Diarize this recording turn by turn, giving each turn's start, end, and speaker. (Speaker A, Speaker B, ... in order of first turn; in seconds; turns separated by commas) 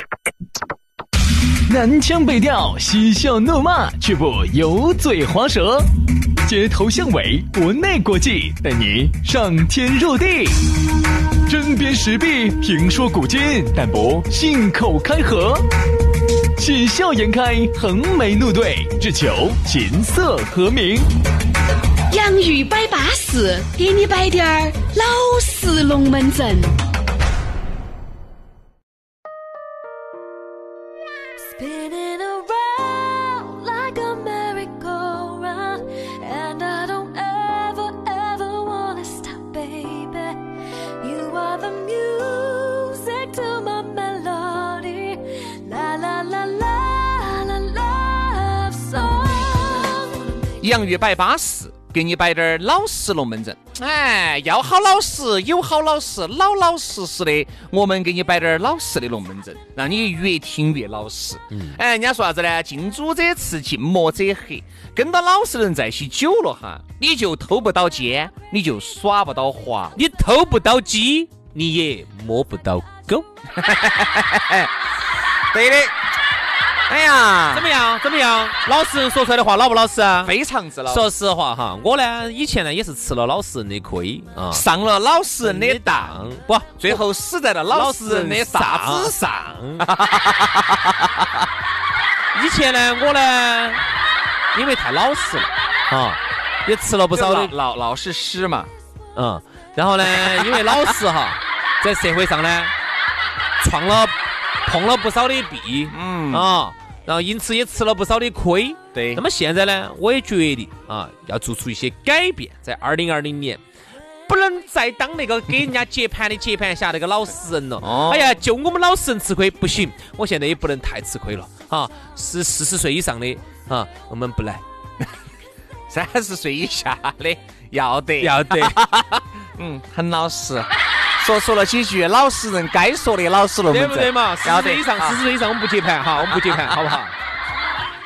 Speaker A: 1.7-5.9, Speaker A: 6.4-10.7, Speaker A: 11.5-15.7, Speaker A: 16.6-21.1, Speaker B: 22.1-26.8, Speaker C: 31.4-40.4, Speaker C: 41.0-50.7, Speaker D: 50.6-70.0, Speaker E: 61.5-61.8, Speaker E: 70.0-73.3, Speaker D: 73.6-74.7, Speaker D: 75.5-75.9, Speaker D: 76.9-77.7, Speaker E: 77.5-80.3, Speaker D: 80.2-81.1, Speaker E: 80.9-84.7, Speaker D: 84.5-86.3, Speaker E: 85.4-87.0, Speaker D: 86.8-89.1, Speaker E: 87.7-89.9, Speaker D: 89.8-91.3, Speaker E: 92.3-93.8, Speaker E: 94.5-97.5, Speaker D: 97.1-98.7, Speaker E: 99.2-102.7, Speaker D: 100.1-100.6, Speaker E: 103.6-104.2, Speaker E: 104.7-113.6, Speaker D: 105.9-106.6, Speaker D: 108.9-109.2, Speaker E: 114.3-124.6, Speaker D: 117.8-118.3, Speaker D: 125.9-135.2, Speaker E: 128.2-128.8, Speaker E: 133.7-137.2, Speaker D: 136.2-136.8